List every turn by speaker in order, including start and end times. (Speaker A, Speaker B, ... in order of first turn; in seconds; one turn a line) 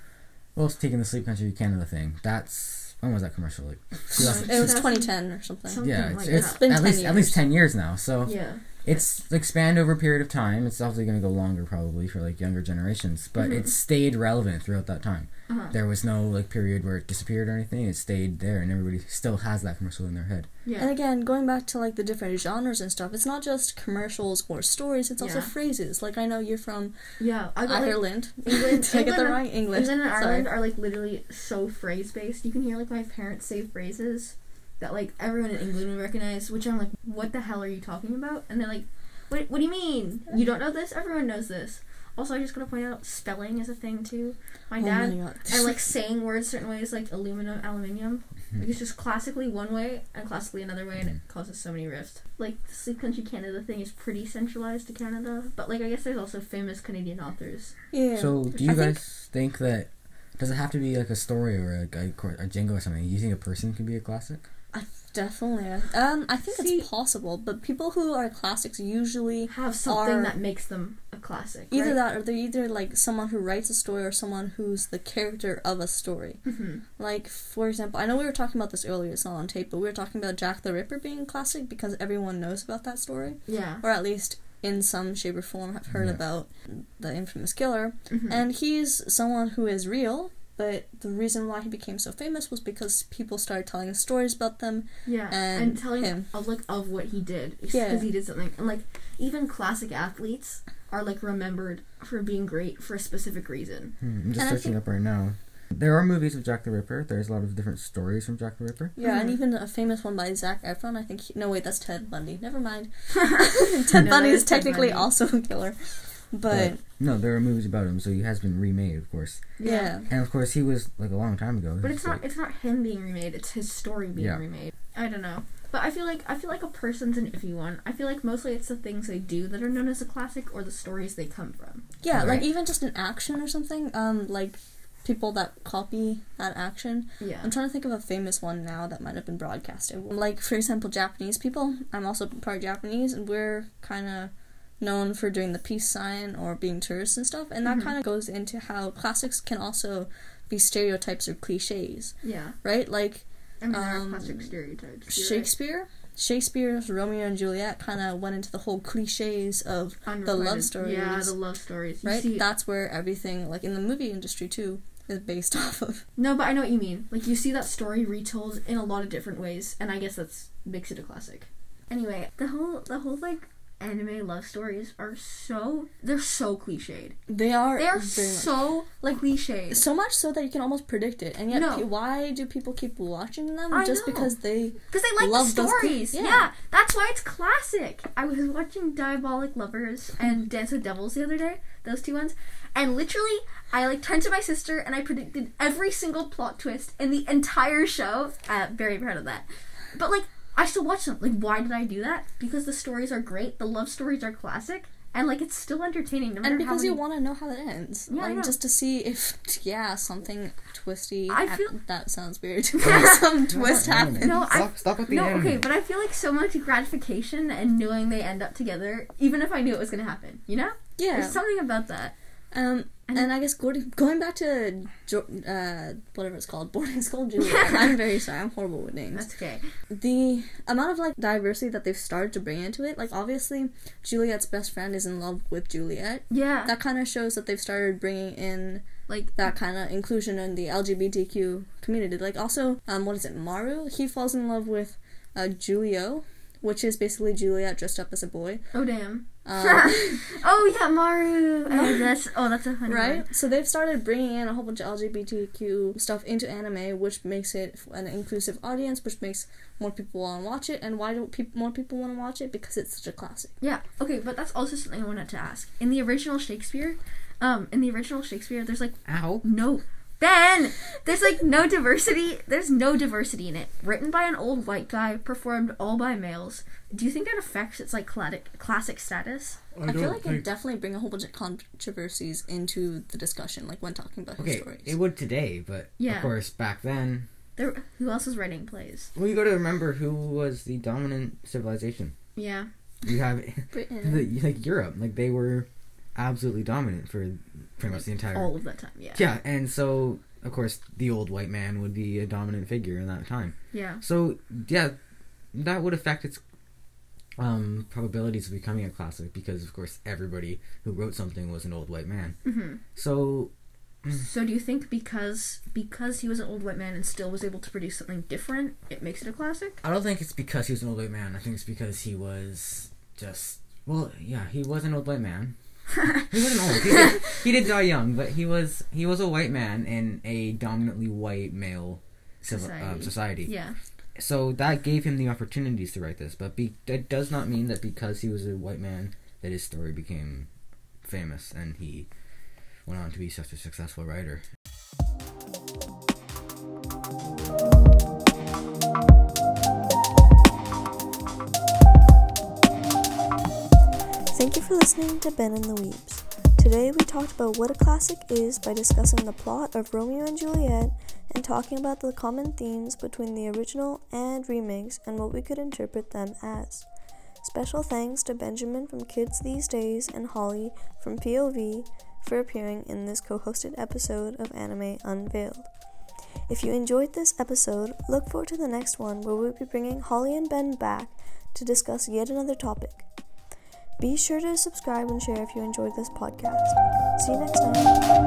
Speaker A: 0.6-4.8
Speaker B: 4.1-5.1
Speaker C: 4.1-7.4
Speaker B: 5.7-6.7
Speaker A: 5.8-20.5
Speaker B: 8.2-8.8
Speaker B: 13.4-13.6
Speaker B: 15.5-15.8
Speaker B: 20.6-20.9
Speaker C: 20.8-26.9
Speaker B: 25.2-25.5
Speaker B: 27.2-57.7
Speaker C: 27.7-30.5
Speaker C: 44.8-45.7
Speaker C: 57.9-59.0
Speaker A: 58.2-64.4
Speaker C: 64.7-70.3
Speaker B: 66.5-66.8
Speaker B: 69.5-72.0
Speaker C: 71.7-76.4
Speaker B: 76.5-76.8
Speaker C: 77.0-96.3
Speaker B: 83.5-83.8
Speaker A: 85.9-86.2
Speaker B: 88.1-88.4
Speaker B: 95.1-103.9
Speaker C: 97.7-98.1
Speaker A: 104.0-108.9
Speaker C: 104.4-104.8
Speaker C: 109.0-115.8
Speaker B: 109.0-109.4
Speaker B: 113.2-115.1
Speaker C: 116.3-116.8
Speaker A: 116.5-119.4
Speaker B: 119.6-119.9
Speaker C: 119.6-120.1
Speaker A: 120.1-122.2
Speaker B: 121.8-132.3
Speaker C: 132.0-154.5
Speaker A: 132.1-132.5
Speaker B: 137.2-137.5
Speaker B: 147.7-147.9
Speaker B: 152.2-152.6
Speaker B: 153.6-155.5
Speaker C: 155.1-161.4
Speaker B: 160.1-162.4
Speaker C: 162.0-166.0
Speaker B: 166.2-177.2
Speaker C: 177.3-178.6
Speaker B: 177.8-179.8
Speaker C: 179.7-186.5
Speaker B: 181.5-181.9
Speaker B: 183.7-184.3
Speaker B: 184.9-207.0
Speaker C: 206.4-214.6
Speaker B: 208.1-208.6
Speaker B: 211.3-211.7
Speaker B: 212.8-213.2
Speaker A: 212.8-215.6
Speaker B: 214.2-222.1
Speaker C: 221.0-221.4
Speaker C: 222.5-229.3
Speaker B: 227.6-227.8
Speaker B: 229.1-229.6
Speaker C: 229.9-248.6
Speaker B: 236.3-236.7
Speaker B: 239.1-239.3
Speaker B: 248.7-253.2
Speaker C: 249.5-250.2
Speaker C: 251.7-252.1
Speaker C: 252.9-263.5
Speaker B: 263.6-279.6
Speaker A: 269.1-269.4
Speaker C: 279.8-285.0
Speaker A: 284.4-287.3
Speaker B: 286.0-286.3
Speaker B: 287.6-289.1
Speaker A: 289.1-292.1
Speaker B: 292.4-292.7
Speaker A: 293.0-298.5
Speaker C: 293.7-294.3
Speaker B: 297.9-299.2
Speaker A: 299.1-305.0
Speaker B: 303.7-304.0
Speaker A: 305.5-306.4
Speaker A: 307.4-312.4
Speaker B: 312.4-312.8
Speaker A: 312.9-313.5
Speaker B: 314.2-319.8
Speaker A: 319.8-325.5
Speaker A: 326.2-333.5
Speaker B: 332.4-333.8
Speaker A: 334.2-340.5
Speaker A: 341.0-342.1
Speaker A: 342.9-344.4
Speaker D: 354.4-366.8
Speaker C: 363.2-364.0
Speaker C: 364.6-365.2
Speaker D: 367.4-370.1
Speaker C: 370.1-375.7
Speaker D: 374.3-375.5
Speaker D: 376.5-383.0
Speaker C: 381.6-382.8
Speaker D: 384.0-388.0